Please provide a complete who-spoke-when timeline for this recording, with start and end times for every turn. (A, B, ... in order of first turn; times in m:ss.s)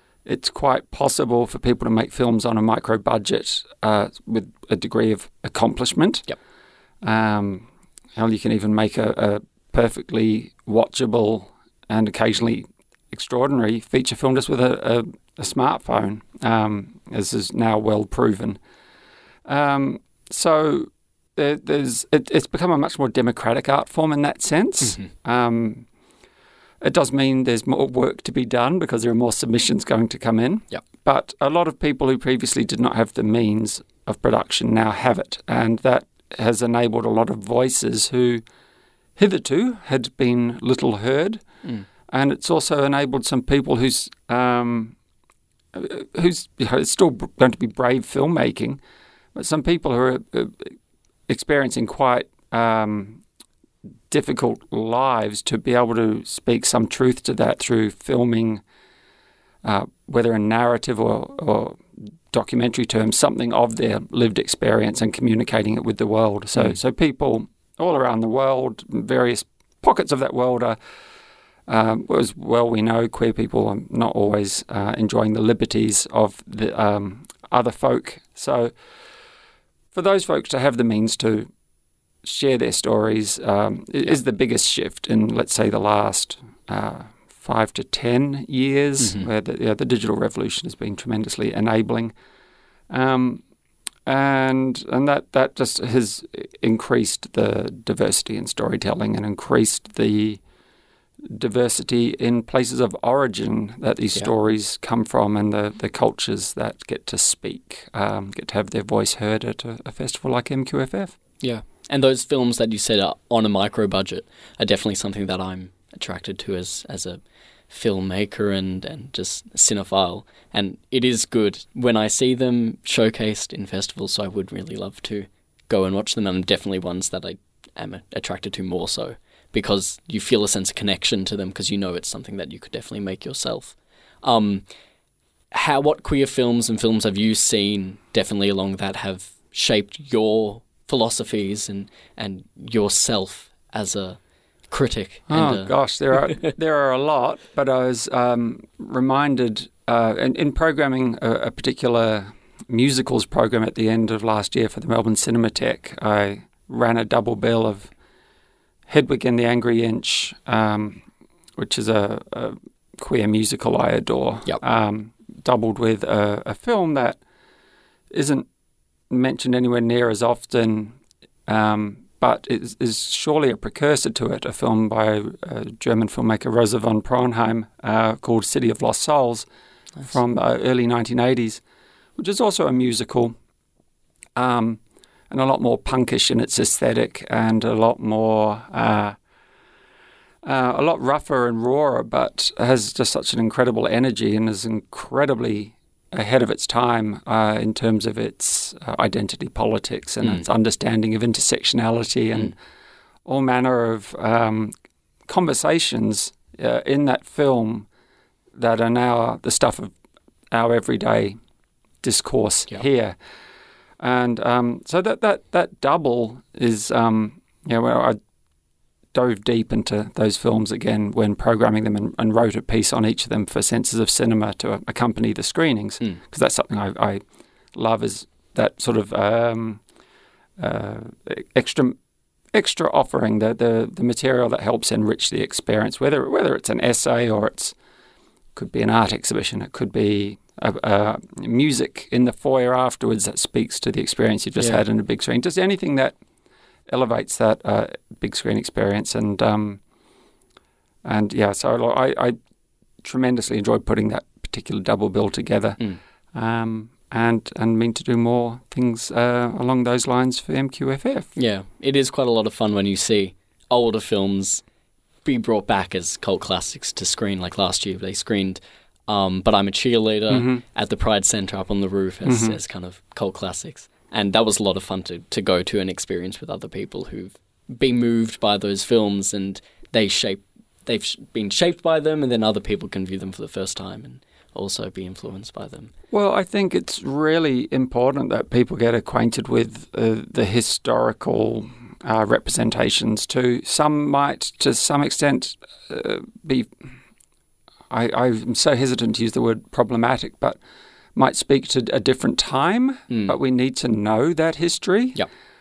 0:00.3-0:06.4 A
0:07.0-0:18.6 A
0:19.5-0:25.9 A
0:24.8-0:25.1 B
0:26.8-0:38.4 A
0:39.2-0:41.4 A
0:42.1-0:45.0 A
0:45.7-0:48.8 A
0:49.4-0:50.8 A
0:51.3-0:53.2 A
0:54.1-0:58.6 A
0:59.6-1:10.8 A
1:11.7-1:18.7 A
1:19.9-1:21.5 A
1:22.2-1:32.1 A
1:29.0-1:29.3 B
1:32.9-1:33.4 A
1:34.1-1:40.4 A
1:41.3-1:51.2 A
1:51.4-2:14.7 B
2:15.5-2:24.2 B
2:24.7-2:25.7 B
2:25.3-2:37.9 A
2:38.9-2:41.0 A
2:41.6-2:47.2 A
2:48.1-2:48.5 A
2:49.1-2:59.5 A
3:00.0-3:01.6 A
3:02.2-3:03.3 A
3:04.4-3:09.2 A
3:10.4-3:22.6 A
3:23.2-3:24.7 A
3:25.3-3:27.9 A
3:28.6-3:29.9 A
3:30.5-3:31.4 A
3:32.0-3:33.2 A
3:34.0-3:38.2 A
3:39.1-3:47.2 A
3:47.8-3:49.8 A
3:50.6-3:52.0 A
3:52.5-3:57.8 A
3:58.6-4:06.2 A
4:04.6-4:04.8 B
4:06.9-4:09.8 A
4:11.0-4:12.4 A
4:13.0-4:21.3 A
4:21.4-4:24.6 B
4:25.2-4:45.9 B
4:30.3-4:30.6 A
4:32.2-4:32.6 A
4:46.1-4:56.7 A
4:57.9-5:00.6 A
5:01.2-5:05.2 A
5:03.1-5:03.4 B